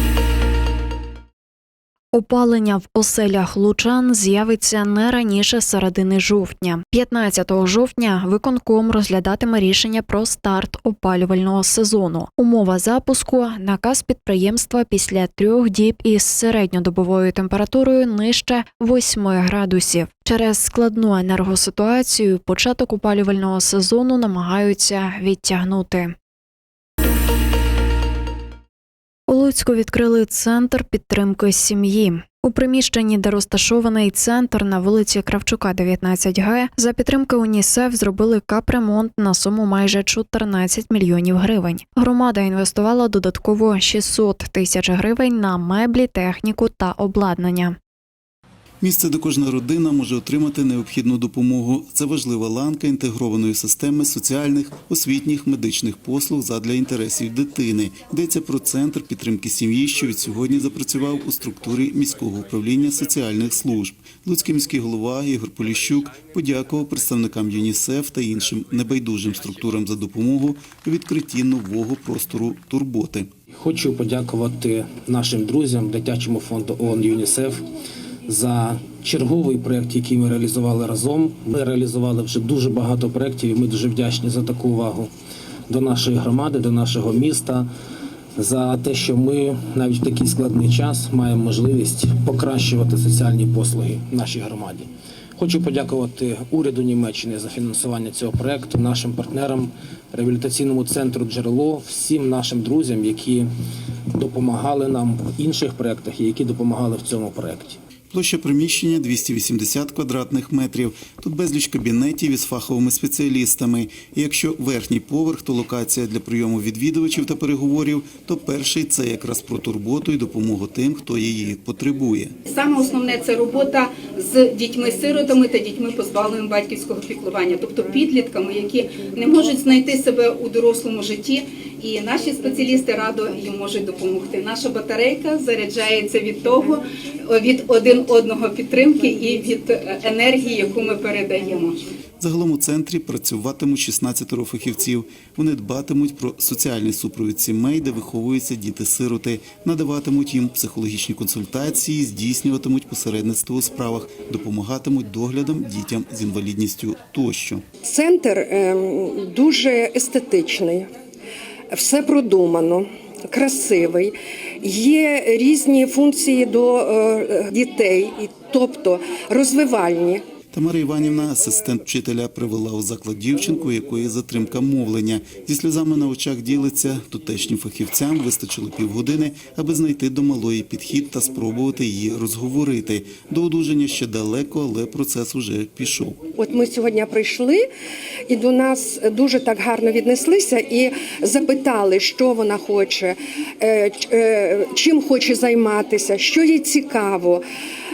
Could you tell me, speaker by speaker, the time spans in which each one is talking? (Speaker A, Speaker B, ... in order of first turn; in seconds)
Speaker A: 2.1-26.1, 29.3-47.8
Speaker B: 48.8-73.3, 108.1-122.3, 142.2-157.6, 170.5-186.2
Speaker C: 73.5-77.6, 78.3-85.1, 85.7-87.7, 88.3-103.5, 104.1-107.8
Speaker D: 122.5-141.9
Speaker E: 157.8-160.9, 161.7-170.2, 186.4-187.6, 188.3-197.4